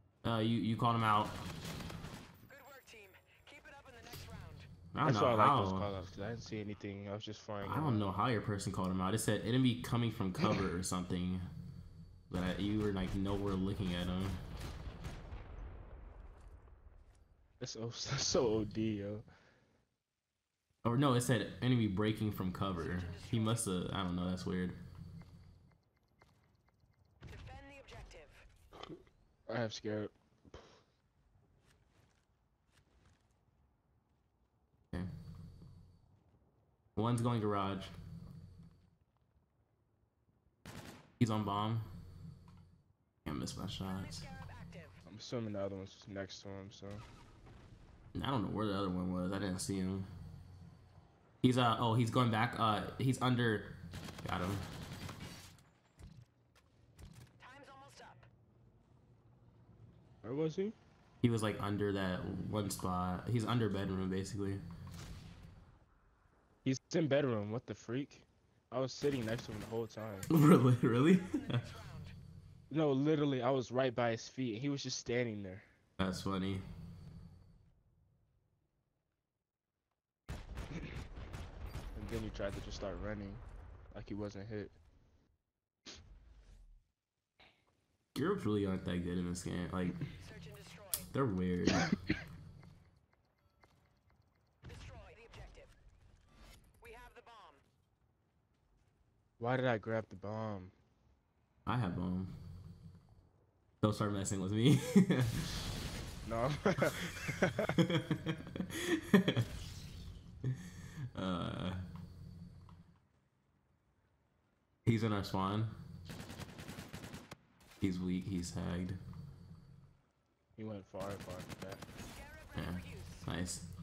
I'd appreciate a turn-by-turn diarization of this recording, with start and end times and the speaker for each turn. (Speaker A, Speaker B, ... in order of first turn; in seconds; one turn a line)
Speaker A: 0.2-1.4
Speaker B: 2.5-4.6
Speaker A: 4.9-5.9
Speaker C: 5.0-8.1
Speaker A: 7.6-11.4
Speaker A: 12.3-14.4
Speaker C: 17.6-19.2
Speaker A: 20.8-24.8
Speaker B: 27.3-28.3
Speaker C: 29.5-30.6
Speaker A: 37.0-37.9
Speaker A: 41.2-41.9
Speaker A: 43.2-44.3
Speaker C: 45.0-47.0
Speaker A: 48.1-50.1
Speaker A: 51.4-54.6
Speaker B: 57.4-58.2
Speaker C: 60.2-60.7
Speaker A: 61.2-64.6
Speaker C: 66.6-70.3
Speaker A: 70.3-71.7
Speaker C: 72.7-75.7
Speaker A: 76.0-76.6
Speaker C: 81.9-84.7
Speaker A: 88.1-90.1
Speaker B: 90.4-90.8
Speaker A: 91.0-92.0
Speaker B: 94.7-95.7
Speaker B: 96.8-97.6
Speaker C: 99.4-100.7
Speaker A: 101.7-102.3
Speaker A: 103.8-105.6
Speaker C: 106.2-107.8
Speaker A: 107.3-109.5
Speaker A: 111.1-111.8
Speaker A: 114.8-115.7
Speaker A: 117.8-119.0
Speaker C: 120.6-121.8
Speaker A: 122.5-123.7